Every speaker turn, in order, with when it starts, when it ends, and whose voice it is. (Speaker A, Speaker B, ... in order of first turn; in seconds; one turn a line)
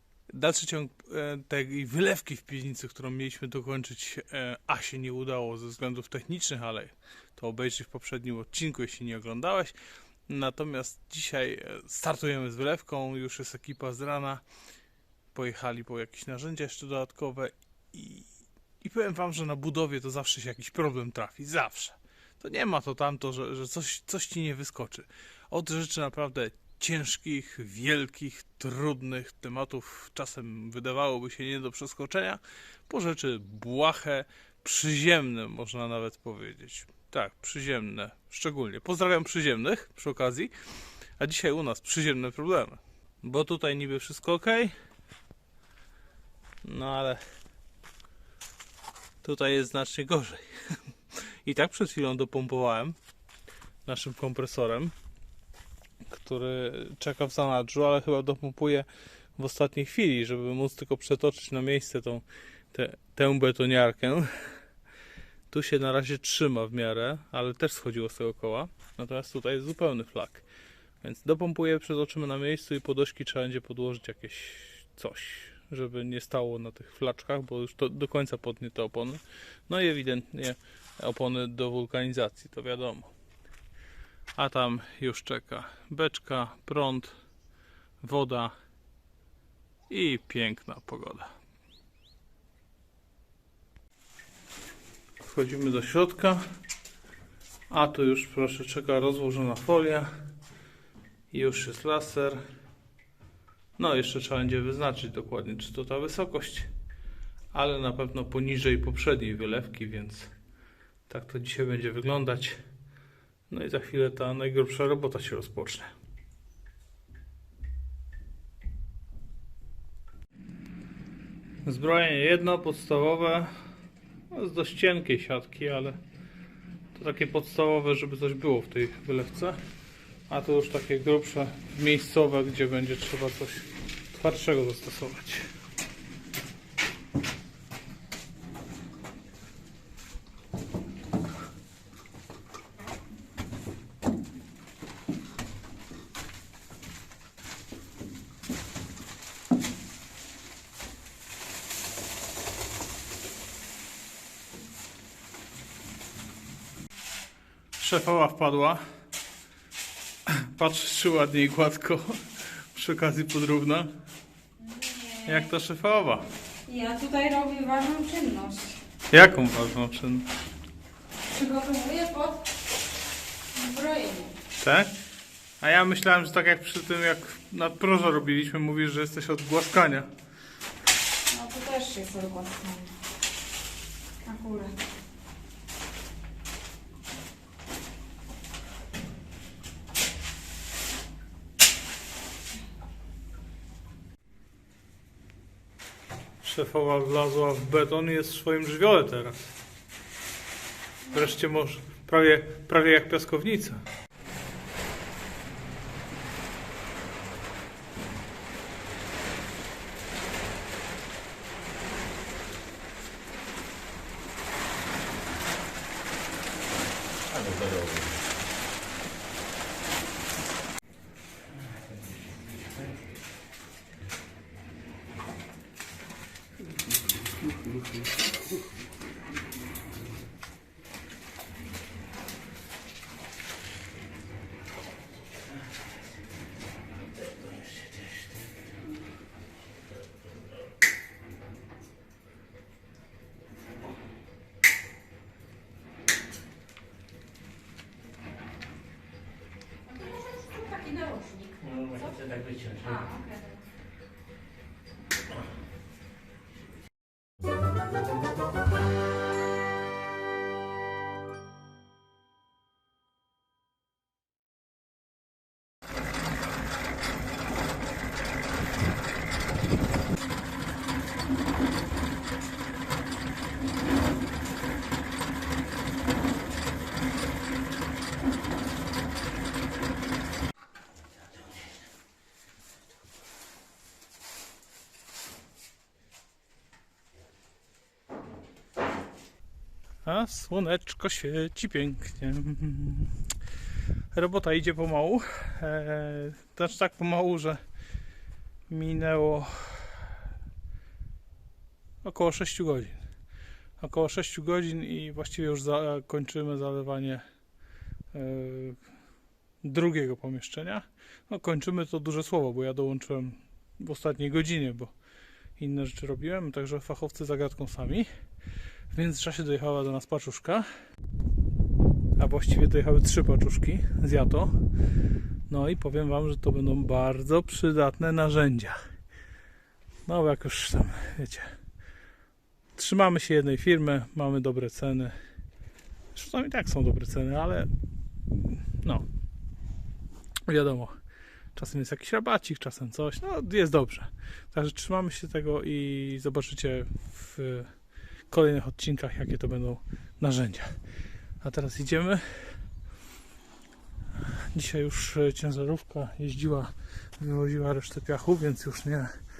Speaker A: 0.3-9.8
Speaker A: 10.3-14.4
Speaker A: 15.3-18.3
Speaker A: 18.8-40.5
Speaker A: 41.2-44.7
Speaker A: 46.6-47.2
Speaker A: 49.2-53.0
Speaker A: 53.8-54.9
Speaker A: 56.1-64.3
Speaker A: 65.5-70.4
Speaker A: 71.0-83.1
Speaker A: 84.3-87.1
Speaker A: 88.0-88.5
Speaker A: 89.9-91.3
Speaker A: 95.2-96.4
Speaker A: 97.7-100.1
Speaker A: 101.3-102.4
Speaker A: 103.8-106.7
Speaker A: 107.5-110.3
Speaker A: 111.1-112.6
Speaker A: 113.5-115.9
Speaker A: 121.6-123.5
Speaker A: 124.3-126.0
Speaker A: 126.9-129.6
Speaker A: 130.3-135.5
Speaker A: 157.8-158.8
Speaker A: 160.2-163.9
Speaker B: 164.6-165.5
Speaker A: 165.2-166.2
Speaker B: 166.7-168.8
Speaker A: 169.1-170.3
Speaker B: 171.3-172.5
Speaker B: 173.5-174.3
Speaker A: 174.6-174.9
Speaker A: 175.6-180.1
Speaker B: 181.3-183.0
Speaker B: 184.2-184.8
Speaker A: 196.4-199.5
Speaker A: 201.1-203.8
Speaker C: 217.3-218.2
Speaker C: 222.1-222.6
Speaker B: 249.9-252.1
Speaker C: 251.6-253.0
Speaker B: 252.8-253.6
Speaker A: 290.0-293.2
Speaker A: 294.1-297.6
Speaker A: 298.7-300.1
Speaker A: 302.0-303.0
Speaker A: 303.8-307.2
Speaker A: 308.1-308.8
Speaker A: 309.6-314.9
Speaker A: 315.6-318.1
Speaker A: 318.9-320.6
Speaker A: 322.2-324.6
Speaker A: 325.5-328.8
Speaker A: 330.1-331.5
Speaker A: 332.8-335.1
Speaker A: 336.1-337.7
Speaker A: 338.3-339.0
Speaker A: 340.4-340.9
Speaker A: 341.5-347.7
Speaker A: 348.3-350.8
Speaker A: 351.4-352.6
Speaker A: 354.2-359.1